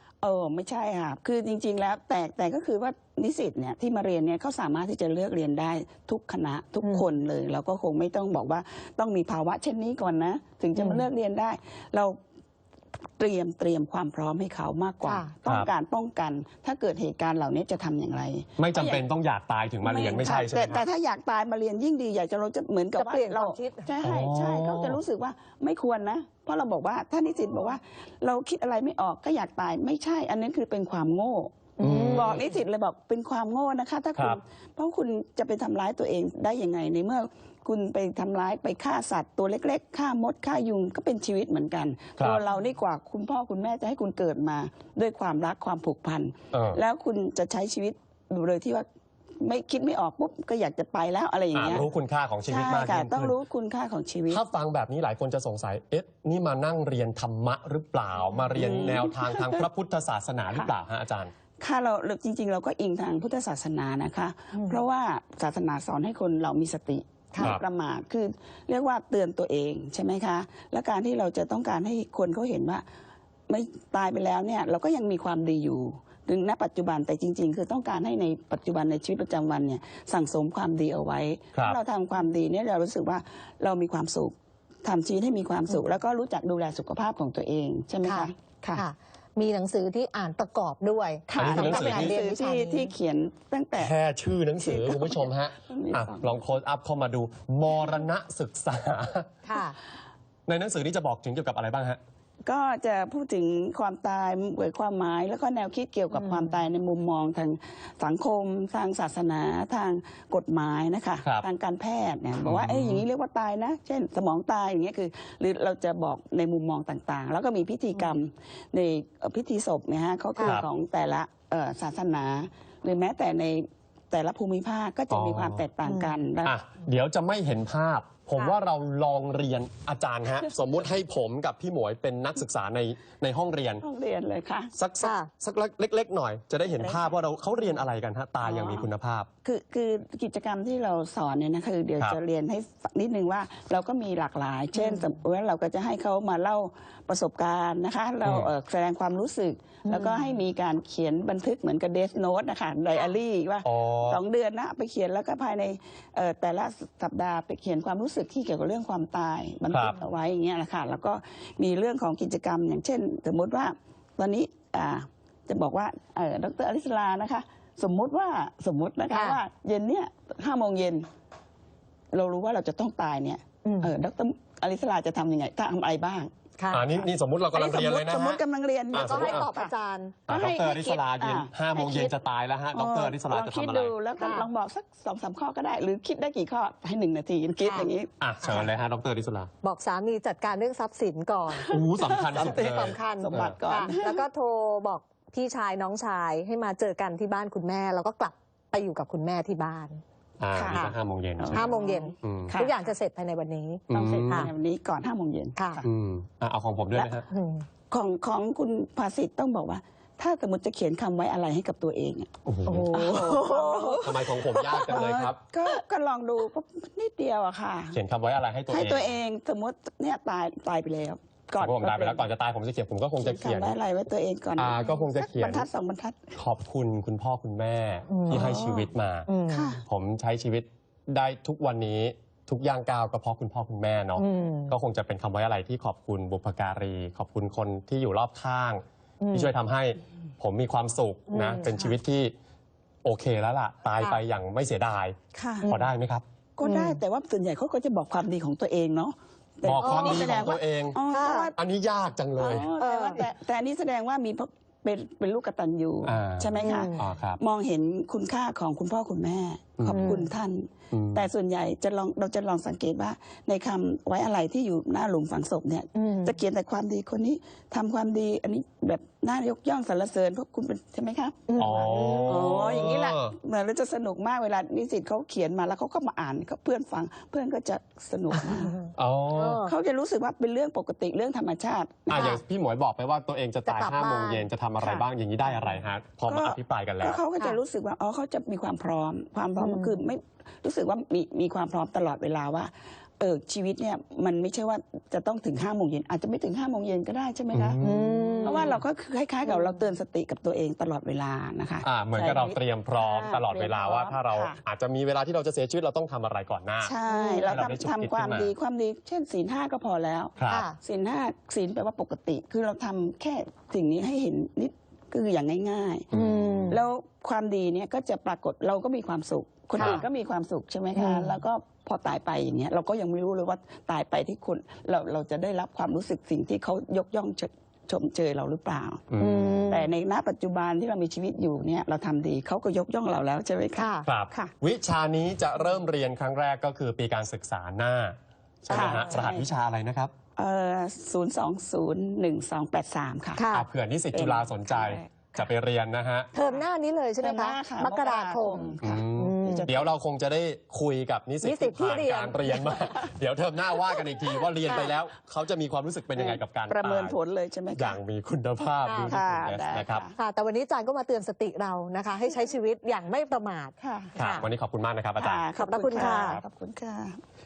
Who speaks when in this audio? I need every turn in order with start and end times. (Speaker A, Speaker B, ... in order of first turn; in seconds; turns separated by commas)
Speaker A: 0.2-12.2, Speaker B: 6.8-7.0, Speaker B: 10.7-11.0, Speaker A: 13.2-19.0, Speaker B: 15.0-15.3, Speaker C: 18.6-20.8, Speaker A: 19.8-48.9, Speaker B: 23.0-24.0, Speaker C: 24.0-25.0, Speaker B: 31.8-32.5, Speaker C: 31.8-32.4, Speaker C: 42.2-42.4, Speaker C: 46.5-46.8, Speaker A: 49.4-51.9, Speaker C: 51.5-53.4, Speaker A: 52.5-54.4, Speaker C: 54.3-61.3, Speaker A: 58.5-59.7, Speaker B: 58.7-59.0, Speaker A: 61.6-72.8, Speaker B: 64.5-64.8, Speaker B: 67.3-67.6, Speaker A: 73.5-88.8, Speaker B: 88.0-92.9, Speaker A: 91.3-94.0, Speaker C: 91.3-92.2, Speaker C: 93.8-99.3, Speaker A: 94.5-96.4, Speaker B: 99.5-99.8, Speaker C: 100.5-102.0, Speaker A: 102.4-126.6, Speaker B: 106.1-106.6, Speaker C: 112.4-113.0, Speaker B: 120.3-120.6, Speaker C: 125.1-125.6, Speaker B: 125.8-126.1, Speaker C: 126.4-133.8, Speaker A: 133.8-134.7, Speaker C: 134.8-139.3, Speaker B: 135.0-135.3, Speaker A: 136.7-137.2, Speaker A: 138.4-138.8, Speaker A: 139.4-171.1, Speaker B: 144.8-145.1, Speaker C: 148.2-148.5, Speaker B: 149.8-150.3, Speaker C: 153.6-154.2, Speaker C: 159.7-159.9, Speaker B: 169.1-169.4, Speaker A: 172.1-176.3, Speaker B: 173.6-173.9, Speaker B: 176.6-176.9, Speaker C: 176.7-178.4, Speaker A: 176.9-179.7, Speaker B: 178.9-180.3, Speaker C: 178.9-179.5, Speaker A: 180.3-182.1, Speaker C: 180.3-183.9, Speaker A: 182.7-188.1, Speaker B: 184.2-184.5, Speaker B: 187.6-187.9, Speaker C: 188.2-189.5, Speaker B: 189.6-191.7, Speaker C: 191.7-193.6, Speaker A: 191.7-194.2, Speaker B: 192.4-200.0, Speaker C: 200.4-201.7, Speaker A: 200.5-202.8, Speaker B: 201.5-204.5, Speaker C: 202.2-202.5, Speaker C: 203.9-204.5, Speaker A: 203.9-205.9, Speaker B: 205.6-205.8, Speaker C: 205.8-207.3, Speaker B: 207.3-207.7, Speaker A: 207.9-212.3, Speaker C: 212.4-213.0, Speaker B: 212.7-214.1, Speaker A: 212.9-218.0, Speaker C: 214.0-215.4, Speaker C: 217.9-219.1, Speaker A: 218.7-222.3, Speaker C: 221.6-223.7, Speaker A: 223.2-226.3, Speaker C: 224.6-225.7, Speaker C: 226.4-229.3, Speaker B: 228.1-228.6, Speaker A: 228.3-228.9, Speaker B: 229.3-229.7, Speaker A: 229.5-229.8, Speaker C: 229.8-242.3, Speaker B: 234.2-234.8, Speaker B: 239.2-239.5, Speaker B: 241.3-241.7, Speaker C: 243.0-245.2, Speaker A: 245.3-245.7, Speaker C: 245.7-246.2, Speaker A: 246.6-251.6, Speaker B: 246.6-247.0, Speaker C: 249.6-251.0, Speaker B: 249.8-250.5, Speaker B: 251.1-251.5, Speaker C: 251.6-252.7, Speaker A: 252.4-278.8, Speaker B: 252.6-253.2, Speaker C: 256.0-257.4, Speaker B: 256.6-257.0, Speaker C: 259.8-260.1, Speaker B: 259.9-260.3, Speaker C: 260.9-261.3, Speaker B: 265.9-266.3, Speaker B: 271.5-272.8, Speaker C: 271.6-273.4, Speaker C: 279.0-279.6, Speaker B: 279.3-279.7, Speaker A: 279.6-282.4, Speaker C: 282.1-287.2, Speaker B: 282.1-282.4, Speaker B: 283.6-285.0, Speaker A: 286.2-297.8, Speaker B: 289.6-290.0, Speaker C: 297.5-298.3, Speaker B: 297.8-298.8, Speaker A: 298.4-304.6, Speaker B: 299.4-299.9, Speaker C: 301.8-306.9, Speaker A: 306.8-316.1, Speaker B: 307.1-307.7, Speaker C: 307.5-308.5, Speaker C: 310.4-310.6, Speaker B: 310.5-310.8, Speaker C: 316.1-316.8, Speaker B: 316.1-316.8, Speaker A: 316.7-329.0, Speaker B: 319.7-320.0, Speaker C: 319.8-320.0, Speaker B: 320.9-321.4, Speaker C: 329.1-329.6, Speaker B: 329.2-329.9, Speaker A: 329.7-334.5, Speaker B: 333.8-334.1, Speaker C: 334.0-340.1, Speaker A: 338.7-339.4, Speaker A: 340.4-343.4, Speaker B: 343.4-343.7, Speaker C: 343.5-346.3, Speaker A: 344.1-345.5, Speaker B: 346.3-349.7, Speaker A: 346.4-346.6, Speaker A: 347.2-349.9, Speaker C: 348.8-357.2, Speaker B: 351.4-352.7, Speaker B: 354.6-354.9, Speaker A: 356.1-358.0, Speaker C: 357.7-360.0, Speaker B: 358.8-359.2, Speaker A: 359.1-360.1, Speaker B: 360.1-364.5, Speaker A: 363.8-364.1, Speaker C: 364.2-365.4, Speaker A: 365.2-367.2, Speaker B: 365.5-366.4